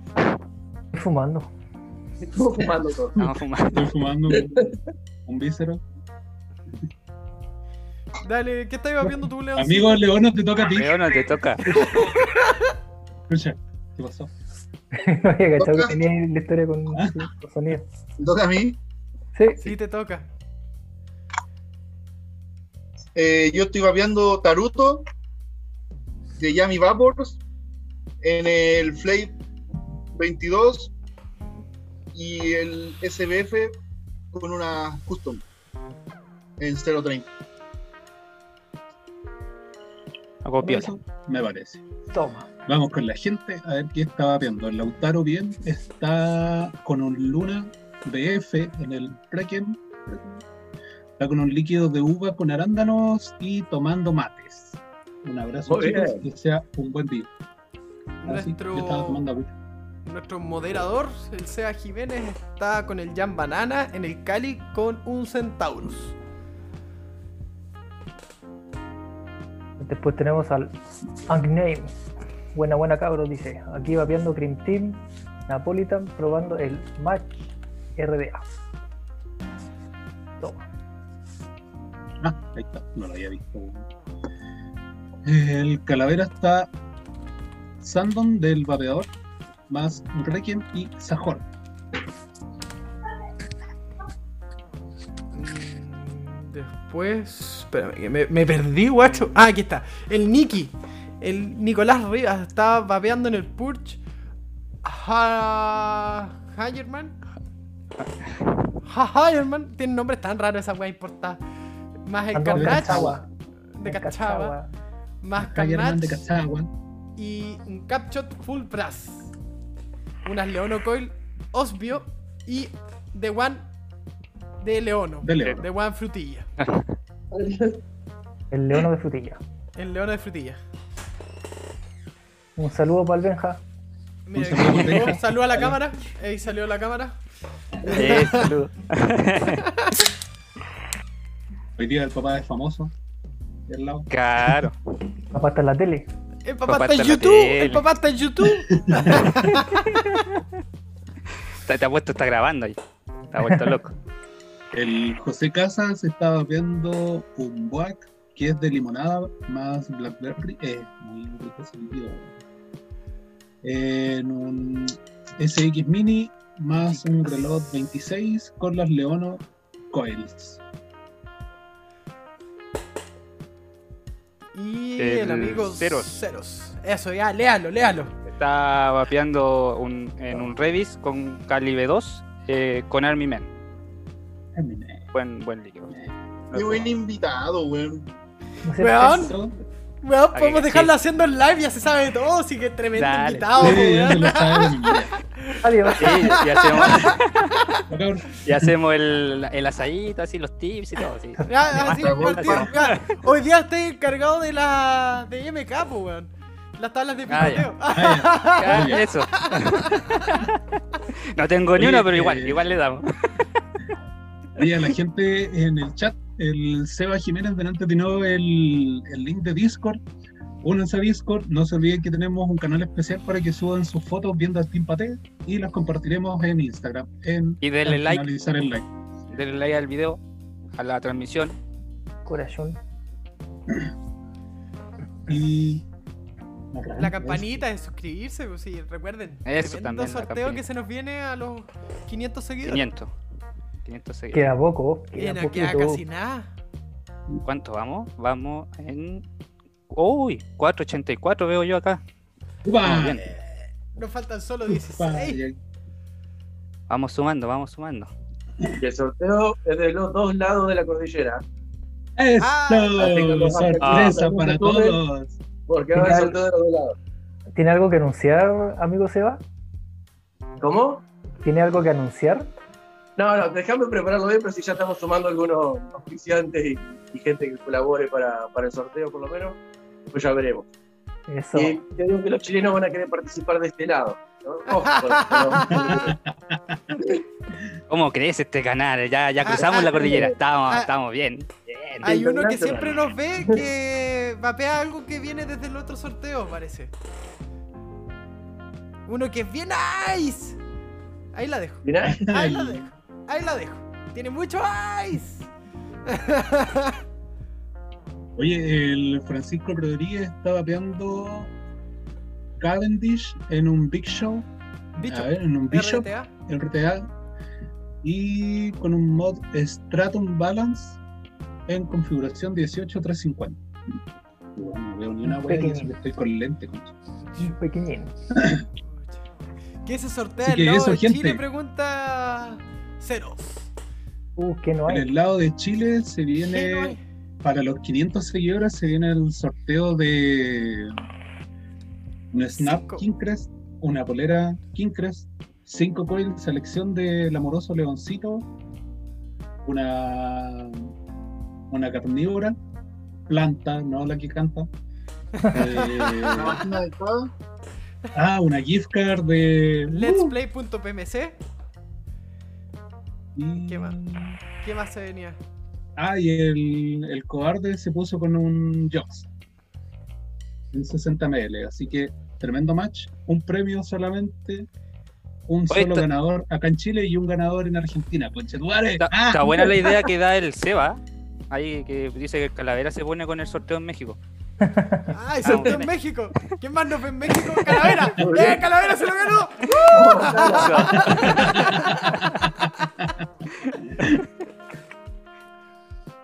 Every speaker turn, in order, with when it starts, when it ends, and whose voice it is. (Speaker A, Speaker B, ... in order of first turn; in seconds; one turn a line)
Speaker A: 0.9-1.5
Speaker B: 2.3-3.1
Speaker C: 3.2-3.9
Speaker D: 3.7-4.7
Speaker B: 4.3-4.8
Speaker D: 5.2-5.8
Speaker E: 8.2-10.0
Speaker D: 9.0-12.2
Speaker C: 10.7-11.7
Speaker E: 11.7-12.7
Speaker D: 13.3-14.3
Speaker A: 14.9-17.8
Speaker F: 15.6-15.9
Speaker D: 16.9-17.3
Speaker F: 18.2-18.8
Speaker A: 19.4-19.7
Speaker E: 19.6-20.3
Speaker F: 23.1-25.1
Speaker F: 26.4-27.4
Speaker F: 28.2-29.4
Speaker F: 30.1-30.9
Speaker F: 32.1-33.7
Speaker F: 34.3-35.4
Speaker F: 36.6-37.3
Speaker C: 40.4-40.9
Speaker A: 40.6-41.0
Speaker D: 41.3-41.8
Speaker A: 42.1-42.5
Speaker D: 42.7-50.4
Speaker D: 51.2-57.3
Speaker B: 55.7-56.2
Speaker D: 58.2-59.5
Speaker E: 58.2-59.2
Speaker E: 60.1-66.2
Speaker A: 69.8-70.8
Speaker A: 71.3-71.9
Speaker A: 72.5-78.5
Speaker A: 80.4-80.7
Speaker D: 82.2-83.9
Speaker D: 85.2-86.7
Speaker D: 87.8-89.1
Speaker D: 89.7-91.5
Speaker E: 95.3-104.0
Speaker E: 104.8-107.2
Speaker E: 108.9-111.4
Speaker E: 112.1-113.2
Speaker A: 112.3-113.3
Speaker D: 112.5-113.2
Speaker E: 113.8-114.6
Speaker A: 113.8-114.7
Speaker E: 115.2-116.2
Speaker D: 115.4-116.7
Speaker E: 117.2-119.3
Speaker E: 120.2-123.7
Speaker E: 124.6-126.5
Speaker D: 125.2-125.6
Speaker C: 126.6-127.0
Speaker B: 127.3-127.8
Speaker A: 128.5-129.4
Speaker E: 129.8-130.6
Speaker A: 132.6-133.6
Speaker E: 134.3-137.2
Speaker D: 134.3-135.7
Speaker C: 134.6-135.1
Speaker E: 137.8-138.5
Speaker C: 137.9-139.7
Speaker D: 141.8-142.9
Speaker D: 143.7-144.7
Speaker C: 144.1-144.8
Speaker A: 145.3-146.1
Speaker E: 146.5-149.8
Speaker C: 146.7-147.8
Speaker D: 148.7-149.4
Speaker C: 149.5-150.4
Speaker C: 151.7-152.8
Speaker C: 153.3-153.9
Speaker D: 154.7-162.3
Speaker D: 163.6-170.6
Speaker E: 174.5-178.1
Speaker C: 175.0-176.2
Speaker C: 178.3-183.5
Speaker D: 184.6-185.1
Speaker C: 185.1-185.9
Speaker C: 186.5-186.9
Speaker F: 186.5-188.1
Speaker A: 188.7-189.3
Speaker E: 188.8-189.3
Speaker D: 189.1-189.6
Speaker E: 190.0-197.8
Speaker C: 190.3-190.9
Speaker C: 193.0-193.8
Speaker D: 193.6-195.1
Speaker A: 195.6-196.3
Speaker C: 196.0-197.5
Speaker D: 197.9-198.7
Speaker C: 198.4-203.1
Speaker E: 201.5-210.4
Speaker F: 201.8-202.7
Speaker C: 207.3-207.7
Speaker D: 207.4-209.0
Speaker C: 208.6-210.8
Speaker C: 211.3-213.4
Speaker D: 211.8-212.6
Speaker D: 214.6-220.0
Speaker D: 220.6-228.9
Speaker C: 227.6-228.2
Speaker C: 229.3-230.2
Speaker C: 230.8-231.6
Speaker A: 232.3-232.8
Speaker D: 235.3-235.8
Speaker D: 236.7-237.6
Speaker E: 237.0-242.9
Speaker C: 239.5-240.6
Speaker C: 242.6-243.1
Speaker C: 243.8-244.5
Speaker A: 244.3-246.0
Speaker E: 245.2-246.5
Speaker C: 247.4-249.2
Speaker C: 249.9-252.0
Speaker D: 252.7-253.2
Speaker C: 252.8-253.2
Speaker E: 253.4-255.4
Speaker D: 254.7-255.6
Speaker C: 256.9-258.1
Speaker B: 258.8-261.4
Speaker D: 262.2-265.4
Speaker E: 262.4-263.0
Speaker B: 263.0-265.0
Speaker C: 263.8-264.2
Speaker B: 265.7-266.9
Speaker A: 265.9-266.4
Speaker A: 267.6-269.4
Speaker B: 270.6-271.0
Speaker A: 271.4-272.5
Speaker B: 273.2-280.7
Speaker A: 281.3-281.8
Speaker B: 281.5-286.1
Speaker E: 284.7-286.1
Speaker D: 285.7-286.8
Speaker B: 286.9-287.2
Speaker C: 287.9-292.1
Speaker E: 289.4-290.9
Speaker B: 292.0-293.6
Speaker E: 292.0-296.9
Speaker E: 299.1-300.6
Speaker E: 301.3-305.5
Speaker B: 301.9-302.3
Speaker D: 302.0-302.8
Speaker E: 306.1-307.0
Speaker D: 308.4-311.5
Speaker D: 312.6-314.5
Speaker E: 315.0-316.3
Speaker D: 315.0-317.1
Speaker D: 318.0-321.0
Speaker D: 321.7-323.6
Speaker D: 324.6-326.9
Speaker A: 325.2-325.9
Speaker A: 327.4-328.1
Speaker D: 328.4-328.6
Speaker E: 328.9-329.2
Speaker E: 329.9-333.7
Speaker D: 330.4-331.4
Speaker A: 334.4-335.1
Speaker D: 334.9-340.9
Speaker E: 336.5-337.0
Speaker D: 342.3-348.5
Speaker E: 342.6-343.1
Speaker D: 349.6-350.9
Speaker D: 351.7-352.6
Speaker D: 353.3-354.7
Speaker E: 355.4-356.5
Speaker D: 355.5-356.6
Speaker F: 356.4-357.3
Speaker D: 358.1-360.4
Speaker E: 359.9-361.4
Speaker D: 363.4-364.4
Speaker E: 363.7-365.4
Speaker D: 366.0-369.3
Speaker D: 370.7-374.7
Speaker D: 375.5-379.8
Speaker C: 375.7-376.1
Speaker C: 379.0-381.0
Speaker C: 381.5-384.2
Speaker A: 384.6-385.1
Speaker E: 385.1-392.2
Speaker C: 385.4-385.9
Speaker B: 388.2-388.6
Speaker B: 389.9-391.0
Speaker F: 390.2-390.9
Speaker C: 390.5-392.3
Speaker D: 391.1-392.4